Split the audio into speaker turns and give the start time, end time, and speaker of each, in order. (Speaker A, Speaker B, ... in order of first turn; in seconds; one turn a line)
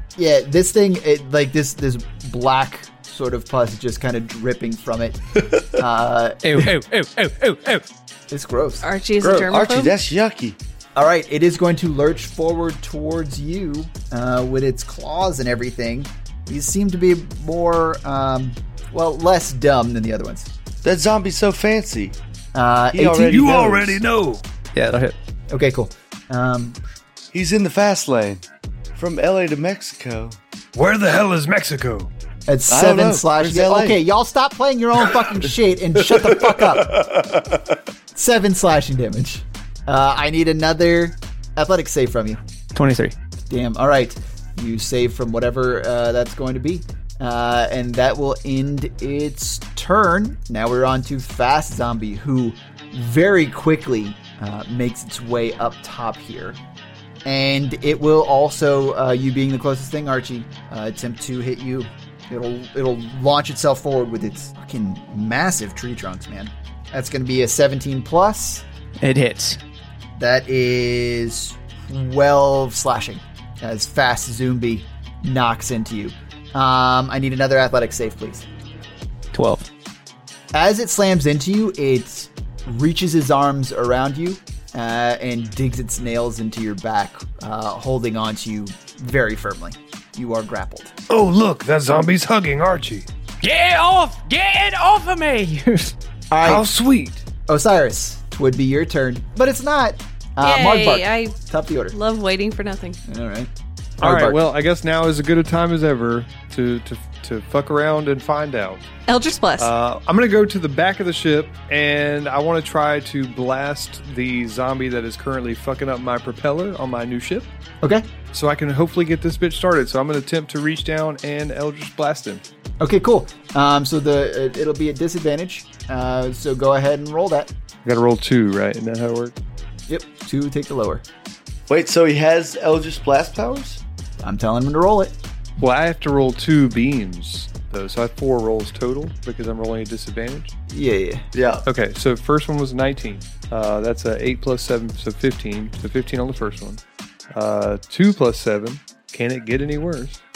Speaker A: 0.1-6.7
Speaker B: 6.4-7.8
Speaker A: 8.3-8.8
Speaker C: 8.8-9.9
Speaker D: 9.2-10.6
Speaker A: 10.9-20.5
Speaker D: 20.8-22.2
Speaker A: 22.5-24.0
Speaker D: 22.9-23.9
Speaker E: 23.2-24.4
Speaker B: 24.7-25.1
Speaker A: 25.5-26.8
Speaker D: 27.3-28.4
Speaker D: 28.9-30.4
Speaker E: 30.7-32.1
Speaker A: 32.5-37.1
Speaker D: 32.7-34.0
Speaker D: 36.5-37.7
Speaker A: 38.1-42.4
Speaker B: 42.7-43.1
Speaker A: 43.5-56.6
Speaker A: 57.2-68.6
Speaker B: 69.0-69.6
Speaker A: 70.2-78.5
Speaker B: 79.3-79.7
Speaker A: 80.5-90.9
Speaker E: 91.1-93.1
Speaker B: 93.4-95.9
Speaker A: 96.3-96.7
Speaker E: 96.4-97.2
Speaker A: 97.5-102.0
Speaker C: 100.4-101.3
Speaker C: 101.9-103.0
Speaker A: 103.1-104.4
Speaker F: 104.0-108.9
Speaker C: 109.1-109.7
Speaker F: 109.6-117.5
Speaker F: 118.3-122.4
Speaker A: 122.8-127.5
Speaker F: 127.8-129.3
Speaker A: 129.9-131.0
Speaker D: 131.7-133.8
Speaker A: 134.2-135.1
Speaker F: 135.6-140.5
Speaker A: 140.7-141.2
Speaker D: 141.3-141.7
Speaker F: 141.7-146.8
Speaker F: 147.3-150.2